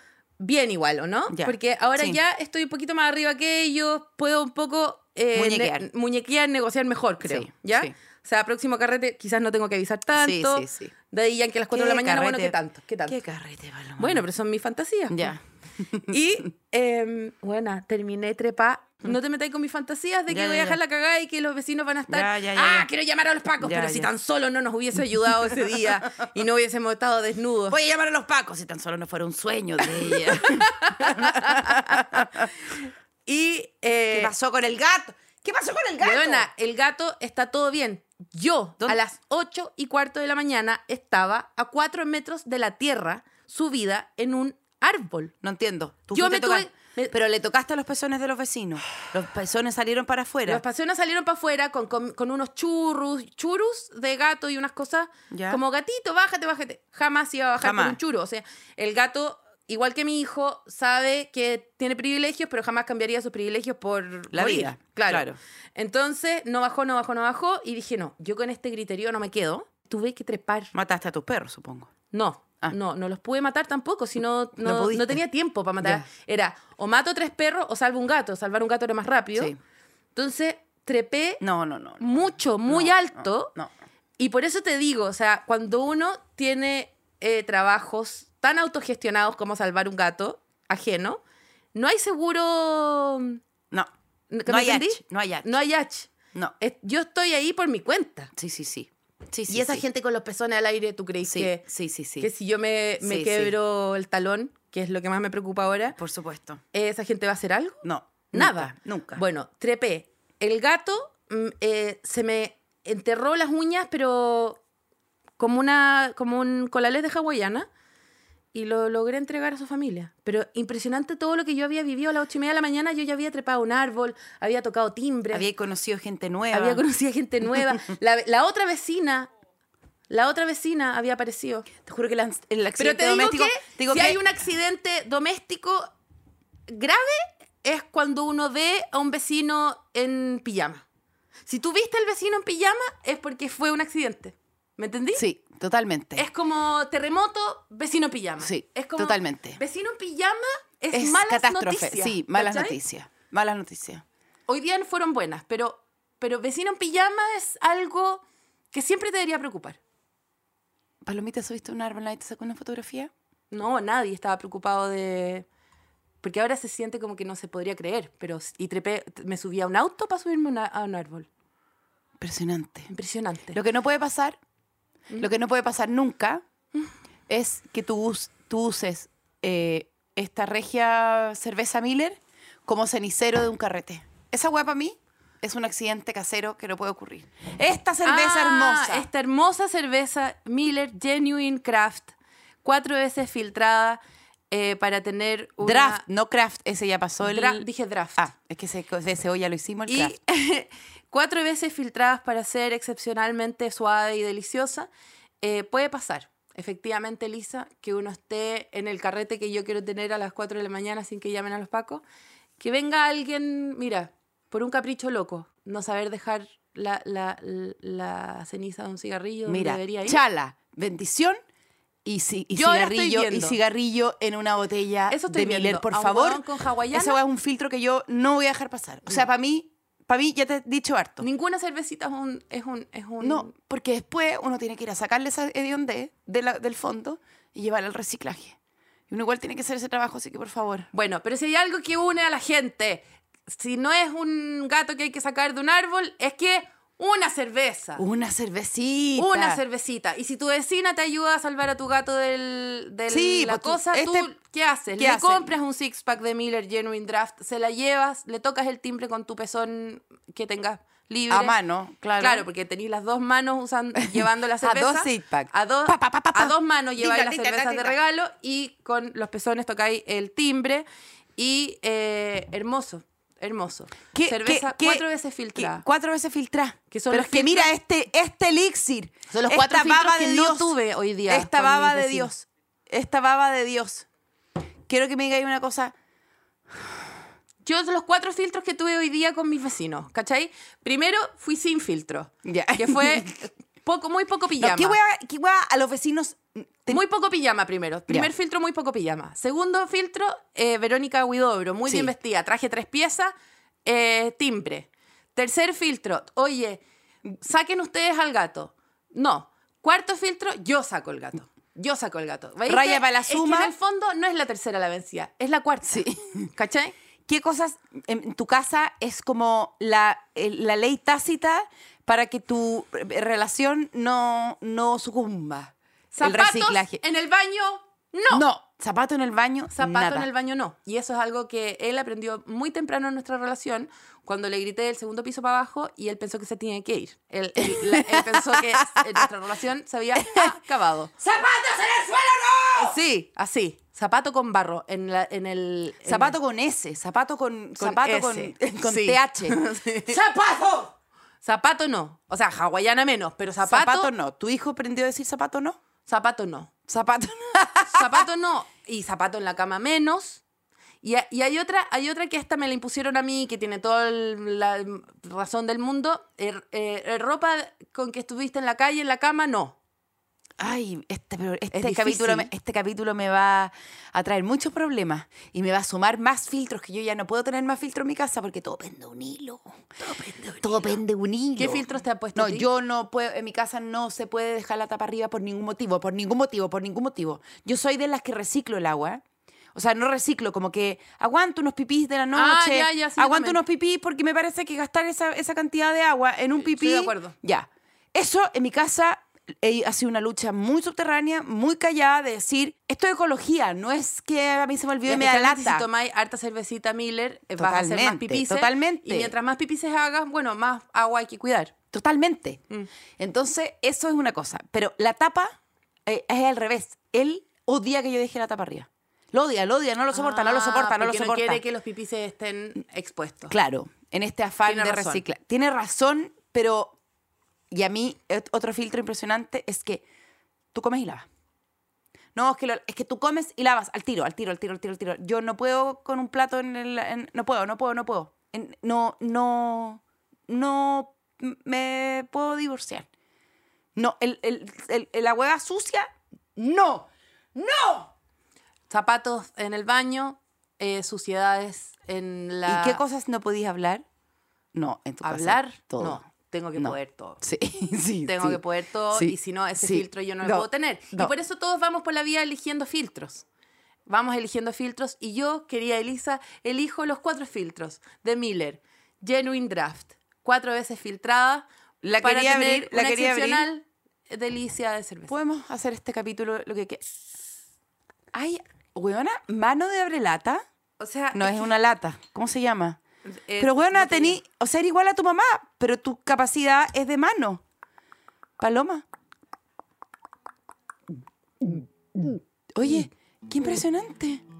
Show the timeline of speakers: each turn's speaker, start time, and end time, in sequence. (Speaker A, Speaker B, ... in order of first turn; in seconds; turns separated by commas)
Speaker A: 0.4-13.2, Speaker B: 1.3-2.2, Speaker B: 5.3-5.9, Speaker B: 7.2-7.9, Speaker B: 10.2-10.9, Speaker B: 11.7-14.2, Speaker A: 14.0-15.3, Speaker B: 15.1-16.1, Speaker A: 16.1-27.8, Speaker B: 20.3-20.8, Speaker B: 22.1-22.9, Speaker B: 23.6-24.1, Speaker B: 27.7-32.5, Speaker A: 29.9-34.3, Speaker B: 34.1-36.5, Speaker A: 36.0-45.3, Speaker B: 45.4-50.6, Speaker A: 46.1-47.1, Speaker A: 50.5-70.7, Speaker B: 55.3-55.6, Speaker B: 57.6-58.0, Speaker B: 64.3-65.4, Speaker B: 70.7-71.9, Speaker A: 72.1-79.5, Speaker B: 74.6-75.2, Speaker B: 75.8-76.0, Speaker A: 80.1-81.4, Speaker B: 81.4-83.7, Speaker A: 82.0-83.5, Speaker A: 84.2-91.2, Speaker A: 91.7-93.4, Speaker A: 94.3-98.3, Speaker B: 94.5-95.5, Speaker B: 98.3-99.8, Speaker A: 99.5-101.6, Speaker B: 101.2-102.3, Speaker A: 102.2-106.0, Speaker B: 103.0-103.5, Speaker B: 106.0-106.6, Speaker A: 106.7-114.6, Speaker B: 107.8-109.2, Speaker A: 115.4-117.7, Speaker A: 118.5-125.5, Speaker B: 125.3-126.8, Speaker A: 126.5-129.3, Speaker A: 130.1-131.7, Speaker B: 131.8-134.2, Speaker A: 132.8-135.9, Speaker A: 136.7-140.8, Speaker A: 141.5-145.2, Speaker B: 145.1-146.2, Speaker A: 146.2-152.8, Speaker B: 148.4-149.6, Speaker B: 150.9-154.0, Speaker A: 154.5-159.8, Speaker B: 161.0-163.1, Speaker A: 163.5-165.4, Speaker A: 166.2-171.3, Speaker B: 172.2-172.9, Speaker A: 172.9-173.6, Speaker B: 173.5-174.4, Speaker B: 175.2-176.4, Speaker B: 177.3-189.1, Speaker A: 188.0-194.0, Speaker A: 194.5-196.0, Speaker B: 195.6-197.7, Speaker A: 197.2-198.3, Speaker B: 198.2-200.1, Speaker A: 199.9-204.9, Speaker A: 205.4-212.0, Speaker A: 212.6-220.2, Speaker B: 219.5-221.4, Speaker B: 222.0-231.2, Speaker A: 222.5-223.6, Speaker A: 225.1-227.2, Speaker A: 231.2-233.5, Speaker B: 233.2-238.6, Speaker B: 239.1-240.9, Speaker A: 240.9-248.0, Speaker B: 248.0-249.6, Speaker A: 249.2-261.6, Speaker B: 253.1-254.3, Speaker B: 254.9-255.5, Speaker B: 261.3-262.4, Speaker A: 262.2-270.8, Speaker B: 264.1-268.0, Speaker A: 271.4-275.8, Speaker B: 274.1-280.8, Speaker A: 276.9-277.7, Speaker A: 279.3-282.3, Speaker B: 281.3-284.1, Speaker B: 284.9-285.9, Speaker A: 287.6-295.0, Speaker B: 292.4-293.4, Speaker B: 294.6-297.0, Speaker A: 296.9-303.3, Speaker B: 301.9-302.1, Speaker A: 303.8-306.8, Speaker A: 307.3-316.9, Speaker B: 312.6-313.7, Speaker B: 315.9-316.5, Speaker B: 317.3-327.0, Speaker A: 326.1-328.4, Speaker B: 328.3-330.3, Speaker A: 329.7-341.1, Speaker B: 337.6-339.3, Speaker B: 340.1-340.6, Speaker B: 341.2-343.0, Speaker A: 342.8-346.4, Speaker B: 346.0-350.9, Speaker A: 347.8-350.4, Speaker A: 351.4-354.1, Speaker B: 353.6-355.8, Speaker A: 356.1-356.7, Speaker B: 356.9-358.2, Speaker A: 357.9-360.4, Speaker A: 361.0-369.8, Speaker B: 370.6-389.2, Speaker A: 371.7-372.5, Speaker A: 380.0-380.9, Speaker A: 381.6-382.6, Speaker B: 389.7-405.9, Speaker A: 392.3-393.6, Speaker A: 396.6-397.3, Speaker A: 405.1-411.7, Speaker B: 407.6-409.3, Speaker B: 411.9-412.6, Speaker B: 413.2-415.5, Speaker B: 416.1-421.6, Speaker A: 420.1-423.5, Speaker B: 423.5-427.0, Speaker A: 424.6-425.2, Speaker B: 427.7-430.0, Speaker B: 430.7-431.3, Speaker B: 432.3-443.1, Speaker B: 443.9-448.1, Speaker A: 448.9-453.0, Speaker B: 452.6-454.0, Speaker B: 454.7-456.2, Speaker A: 455.2-457.4, Speaker B: 456.8-458.6, Speaker A: 458.2-463.4, Speaker B: 459.1-461.3, Speaker A: 464.1-471.6, Speaker B: 472.0-473.7, Speaker A: 472.2-475.3, Speaker B: 475.3-477.0, Speaker B: 478.3-480.6, Speaker A: 481.0-481.7, Speaker B: 481.3-483.0, Speaker A: 483.3-484.4, Speaker B: 483.6-487.6, Speaker B: 488.6-489.0, Speaker B: 491.6-494.4